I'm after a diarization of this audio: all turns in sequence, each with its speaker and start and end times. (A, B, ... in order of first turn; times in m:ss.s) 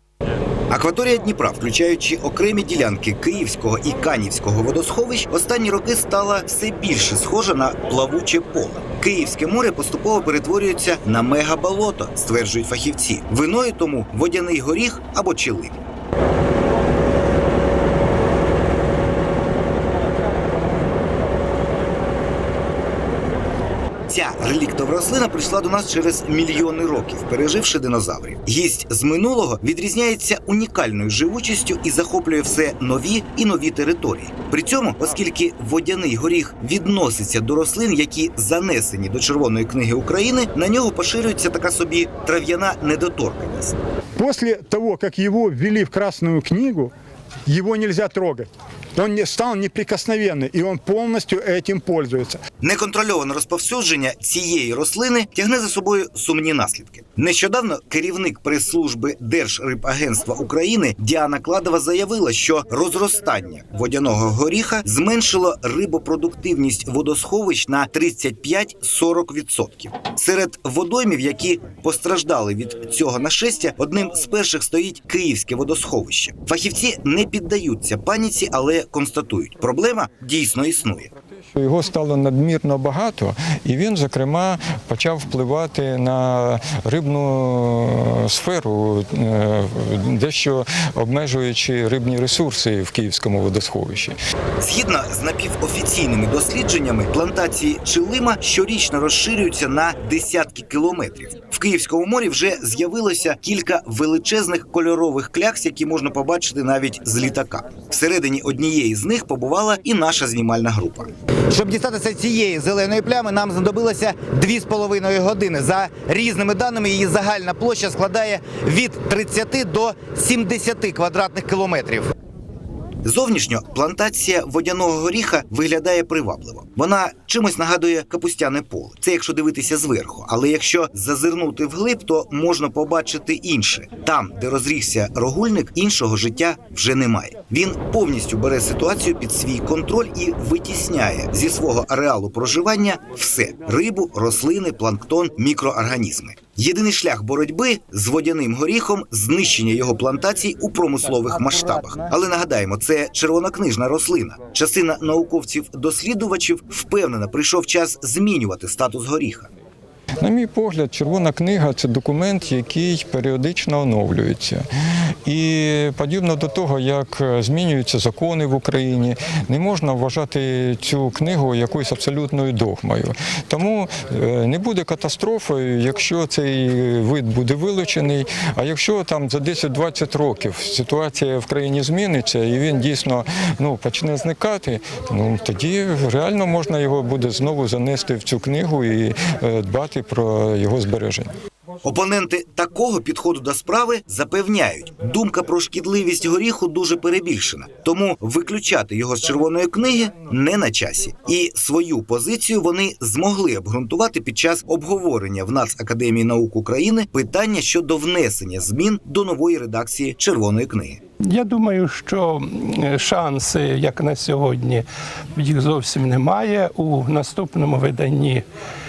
0:00.7-0:15.8 A
0:24.1-0:43.8 A
0:44.2-0:46.9 B
0:47.5-0:52.4 B
0:52.6-1:21.1 A
1:21.5-1:34.2 C
1:34.6-1:51.7 A
1:51.8-1:54.1 D
1:54.2-1:55.3 A
1:55.3-1:57.5 D
1:55.9-1:56.5 A
1:57.5-2:01.3 A
1:59.1-2:00.0 D
2:00.9-2:02.0 D
2:03.0-2:39.5 A
2:31.3-2:31.6 D
2:40.2-2:44.6 C
2:45.3-3:11.3 C
3:11.8-3:31.0 A
3:31.3-3:38.4 E